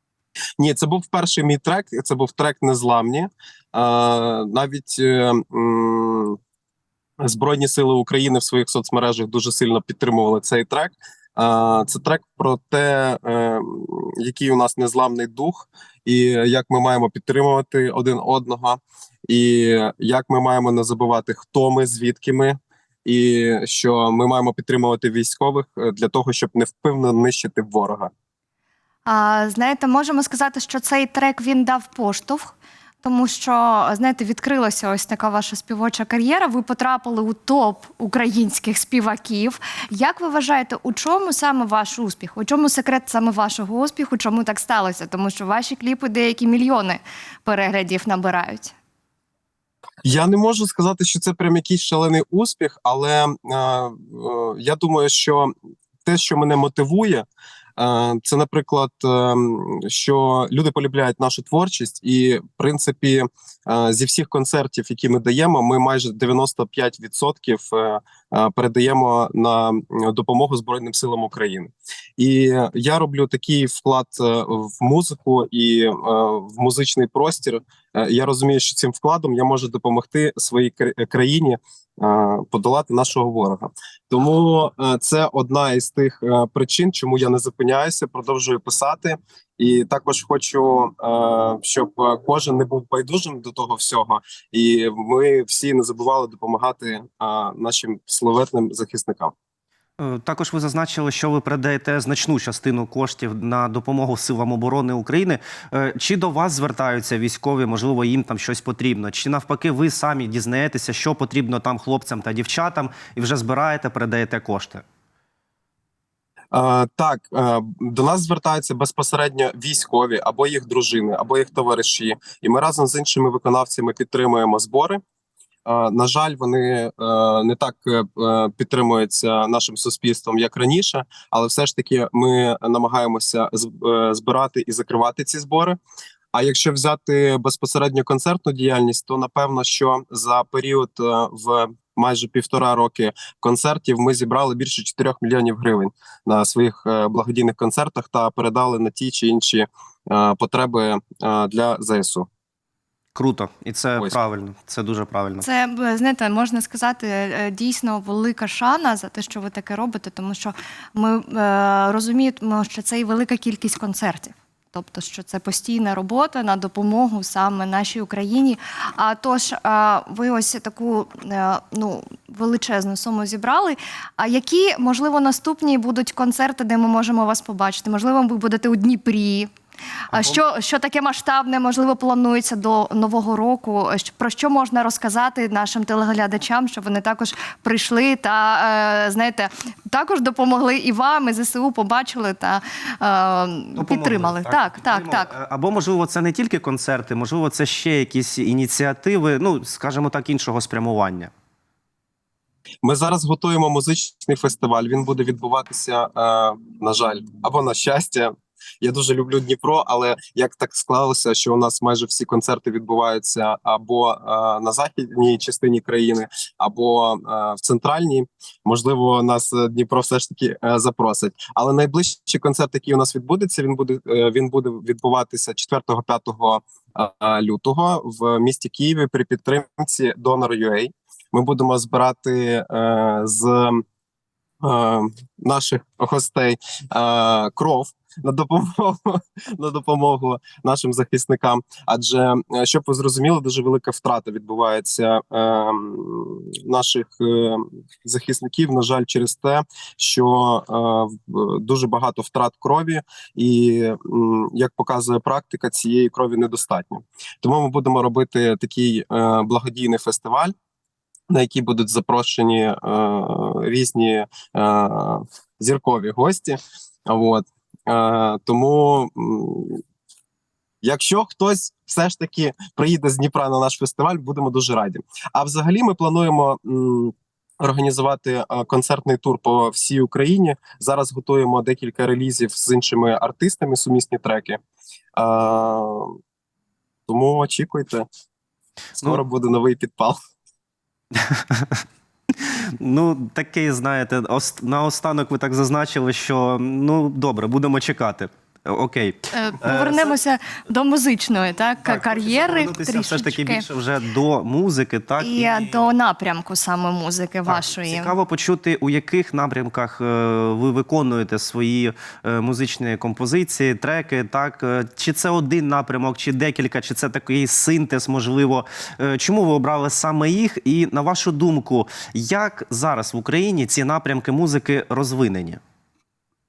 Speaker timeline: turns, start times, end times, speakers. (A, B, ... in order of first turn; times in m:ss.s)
0:00.6-0:06.4 A
0:07.2-0:28.1 A
0:29.0-0:48.7 B
0:50.0-0:55.5 A
0:56.0-0:57.2 A
0:57.8-1:39.3 A
1:40.0-1:54.8 C
1:56.5-2:05.0 A
2:05.6-2:15.8 A
2:16.3-2:32.3 A
2:33.1-2:35.4 C
2:35.4-2:59.5 B
3:00.1-3:15.3 B
3:00.1-3:00.4 C
3:13.8-3:21.3 C
3:22.8-3:53.8 A
3:54.6-4:20.5 A
4:21.3-4:29.8 A
4:30.8-4:44.6 A
4:45.2-4:46.1 A
4:47.1-4:48.0 A
4:49.0-4:50.2 A
4:51.2-4:51.8 C
4:52.4-5:00.2 C
4:59.3-5:03.6 B
5:01.8-5:05.9 C
5:05.2-5:08.1 B
5:07.5-5:25.6 C